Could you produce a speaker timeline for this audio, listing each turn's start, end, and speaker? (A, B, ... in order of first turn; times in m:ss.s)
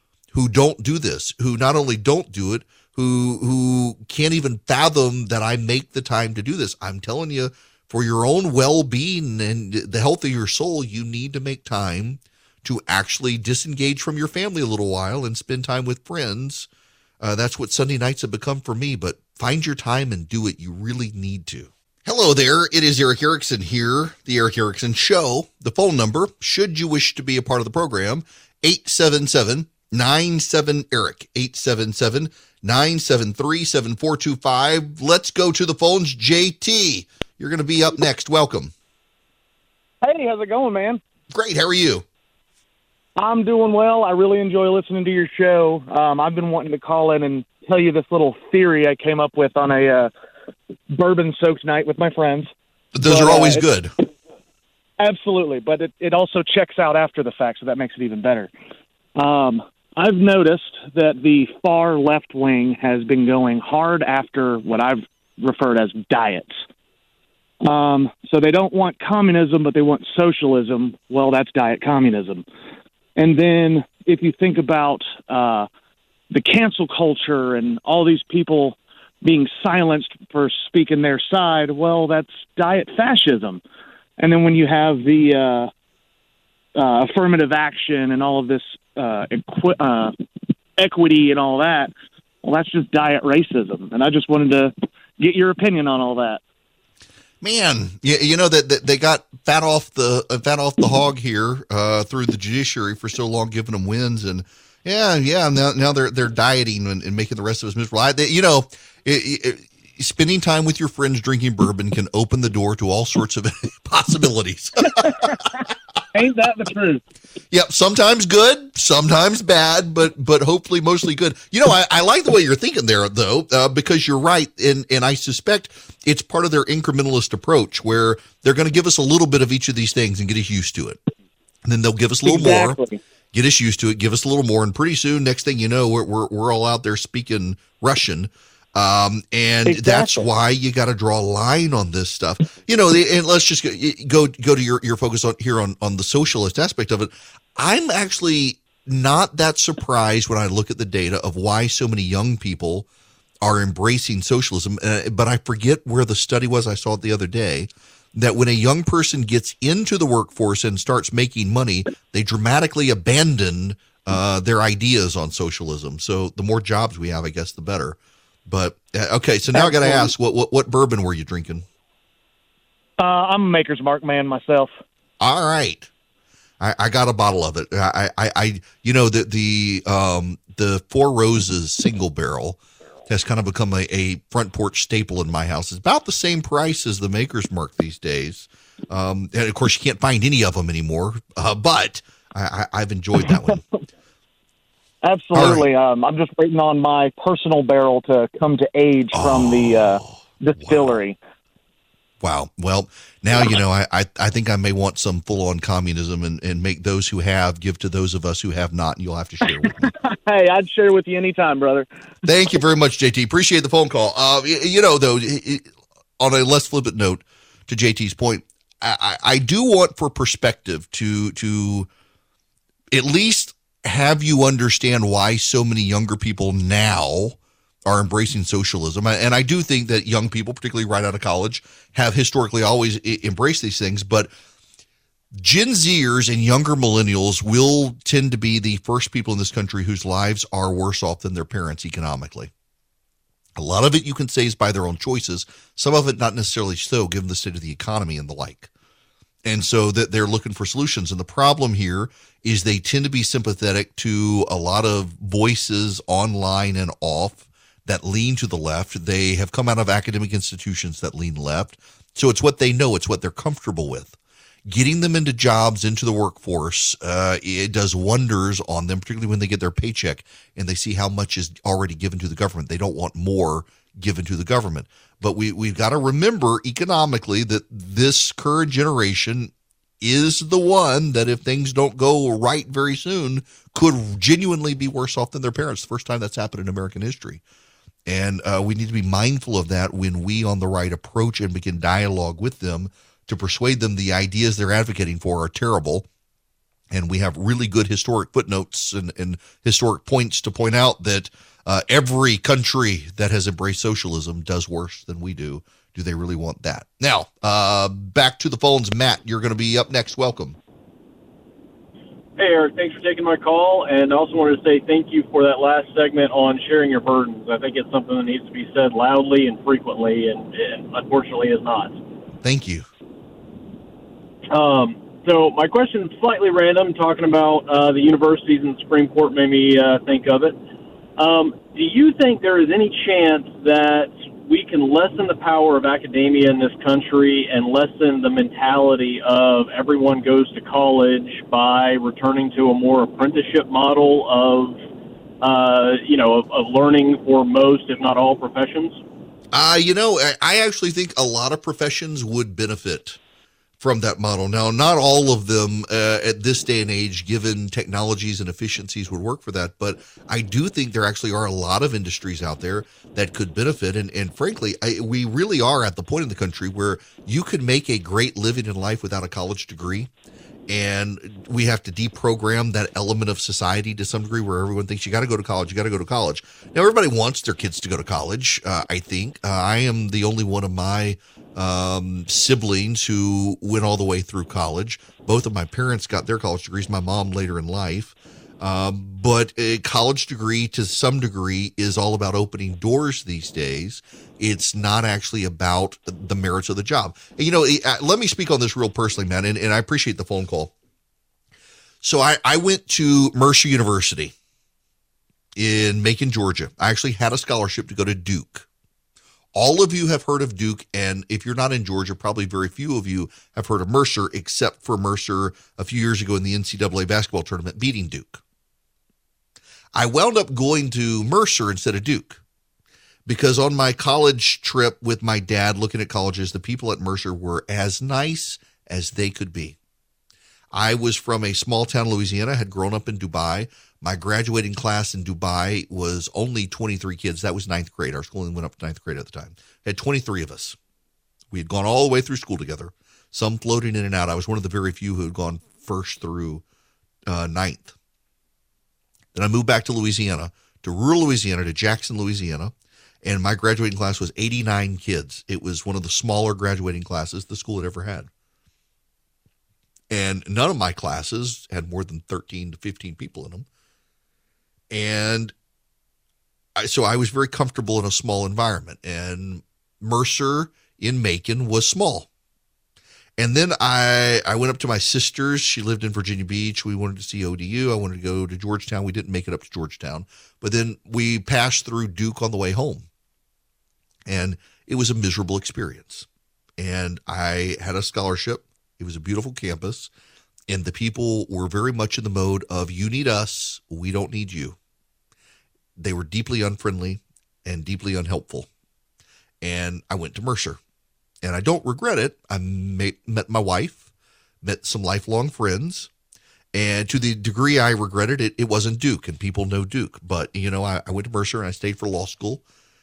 0:00.3-0:16.7 A
0:17.2-0:38.7 A
0:40.0-0:41.0 B
0:41.3-0:42.0 A
0:43.2-0:50.1 B
0:50.9-0:52.5 B
0:52.9-0:53.9 A
0:53.0-0:53.7 B
0:55.0-0:58.5 B
0:59.2-1:06.5 B
1:07.6-1:12.4 B
1:13.2-1:15.7 B
1:16.3-1:23.6 B
1:24.2-1:25.7 B
1:26.7-1:30.1 B
1:30.8-1:36.4 B
1:37.4-1:55.3 A
1:56.1-1:57.0 B
1:57.5-2:11.0 A
2:11.6-2:12.8 A
2:12.2-2:13.0 B
2:13.3-2:32.9 A
2:19.6-2:20.2 B
2:33.4-2:51.7 A
2:49.6-2:50.1 B
2:53.0-2:54.7 B
2:55.2-2:55.9 A
2:56.6-3:02.6 A
3:03.1-3:13.6 A
3:15.0-3:21.2 B
3:15.3-3:15.7 A
3:19.1-3:21.0 A
3:22.2-3:29.9 A
3:29.6-3:31.9 B
3:32.2-3:35.7 A
3:36.2-3:41.9 A
3:42.9-3:54.3 A
3:55.4-4:02.5 A
4:03.6-4:08.7 A
4:09.4-4:47.4 A
4:48.1-4:56.1 A
4:56.9-5:10.6 A
5:12.4-5:22.0 C
5:22.4-5:22.8 A
5:24.5-5:30.6 C
5:31.2-5:44.8 C
5:45.4-5:49.0 C
5:49.5-5:53.2 A
5:53.8-6:10.1 A
6:10.7-6:40.7 A
6:42.0-6:44.3 A
6:45.6-6:48.6 A
6:49.5-6:58.4 A
6:59.9-7:02.4 A
7:03.2-7:09.8 A
7:10.7-7:20.8 A
7:21.5-7:26.6 A
7:27.3-7:27.9 A
7:29.3-7:38.3 A
7:40.1-7:43.6 A
7:44.9-7:45.5 A
7:46.8-7:52.3 A
7:53.4-8:03.1 A
8:04.3-8:06.3 A
8:06.8-8:10.1 A
8:10.7-8:14.8 A
8:16.0-8:18.7 A
8:19.6-8:20.8 A
8:21.4-8:24.0 A
8:24.6-8:26.1 A
8:26.7-8:32.6 A